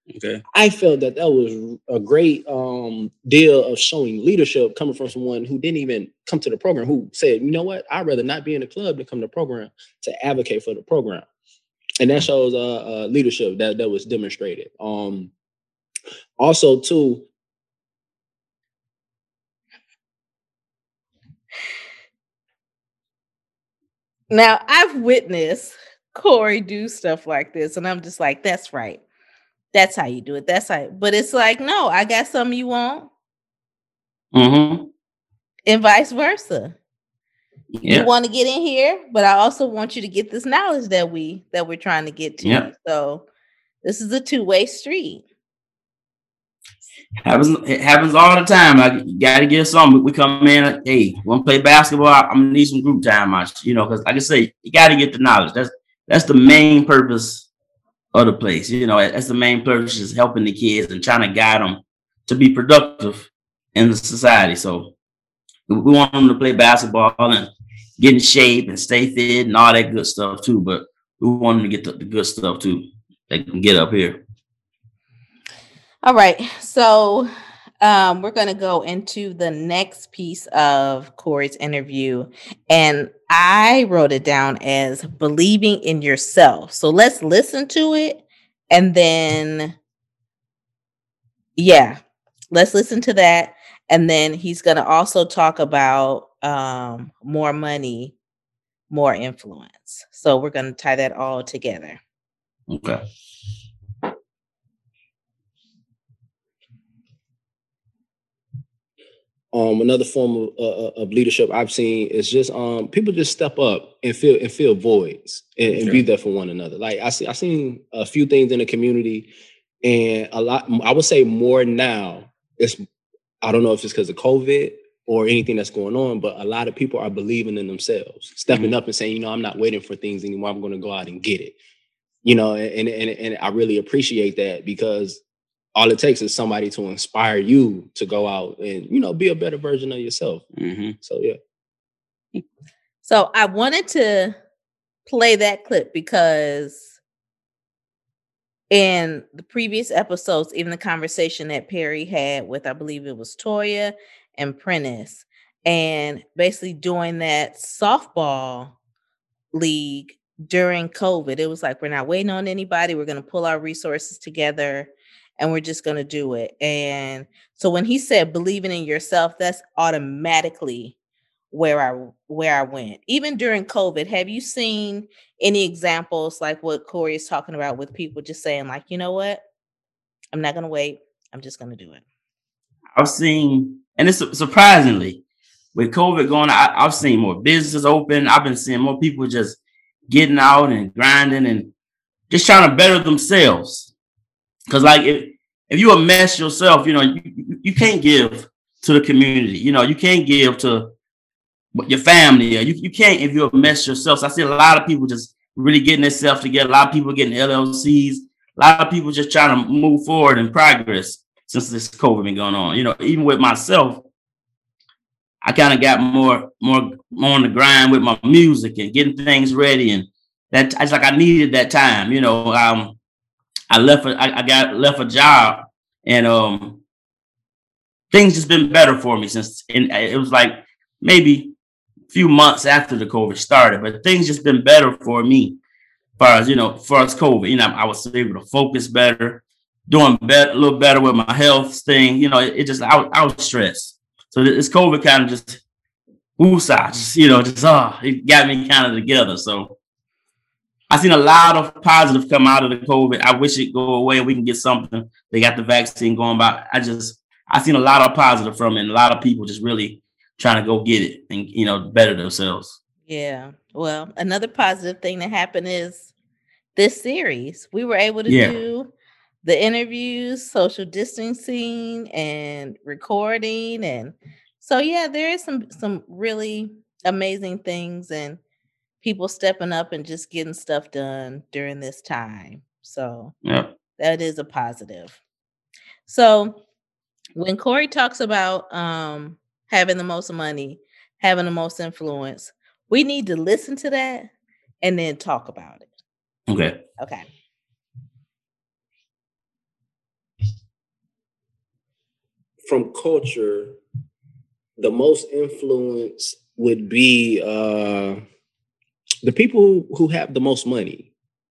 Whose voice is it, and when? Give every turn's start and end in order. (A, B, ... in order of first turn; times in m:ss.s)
0:00.1-0:00.4 A
0:00.5-0:11.2 B
0:12.0-0:15.3 B
0:16.4-0:17.2 B
0:24.3-0:29.0 C
0:29.7-0:33.1 C
0:34.3-0:34.9 A
0:35.7-0:36.8 C
0:37.8-0:38.1 A
0:37.8-0:43.2 C
0:42.4-0:42.7 A
0:43.8-0:45.2 C
0:47.2-0:57.5 A
0:58.1-1:04.9 A
1:05.7-1:14.2 A
1:16.0-1:17.3 C
1:17.8-1:29.8 C
1:31.6-1:32.0 C
1:32.5-1:38.2 C
1:38.9-1:42.0 C
1:42.7-1:43.0 A
1:49.5-1:59.3 B
1:55.7-1:56.0 A
1:59.8-2:02.8 B
2:03.4-2:11.5 B
2:12.2-2:15.2 B
2:15.7-2:20.4 B
2:20.6-2:21.0 A
2:21.0-2:21.4 B
2:23.0-2:24.4 C
2:25.0-2:26.9 C
2:28.7-2:38.7 C
2:39.5-2:51.0 C
2:51.5-2:59.4 C
3:00.3-3:02.0 C
3:02.9-3:05.2 A
3:05.7-3:11.7 A
3:12.3-3:13.9 A
3:14.7-3:20.9 A
3:21.7-3:34.0 A
3:35.4-3:43.0 A
3:43.7-3:46.8 A
3:48.1-3:51.5 A
3:52.1-3:55.6 A
3:56.2-4:05.6 A
4:06.4-4:09.8 A
4:10.9-4:22.8 A
4:23.1-4:26.1 C
4:26.8-4:28.9 C
4:28.3-4:28.6 A
4:29.4-4:38.4 C
4:39.0-4:43.3 C
4:43.4-4:43.7 A
4:44.0-4:45.2 C
4:46.0-4:46.6 C
4:47.3-4:54.3 C
4:54.8-4:55.9 C
4:56.5-4:56.8 A
4:57.0-4:57.2 C
5:02.6-5:03.8 B
5:04.8-5:08.2 B
5:09.2-5:11.1 B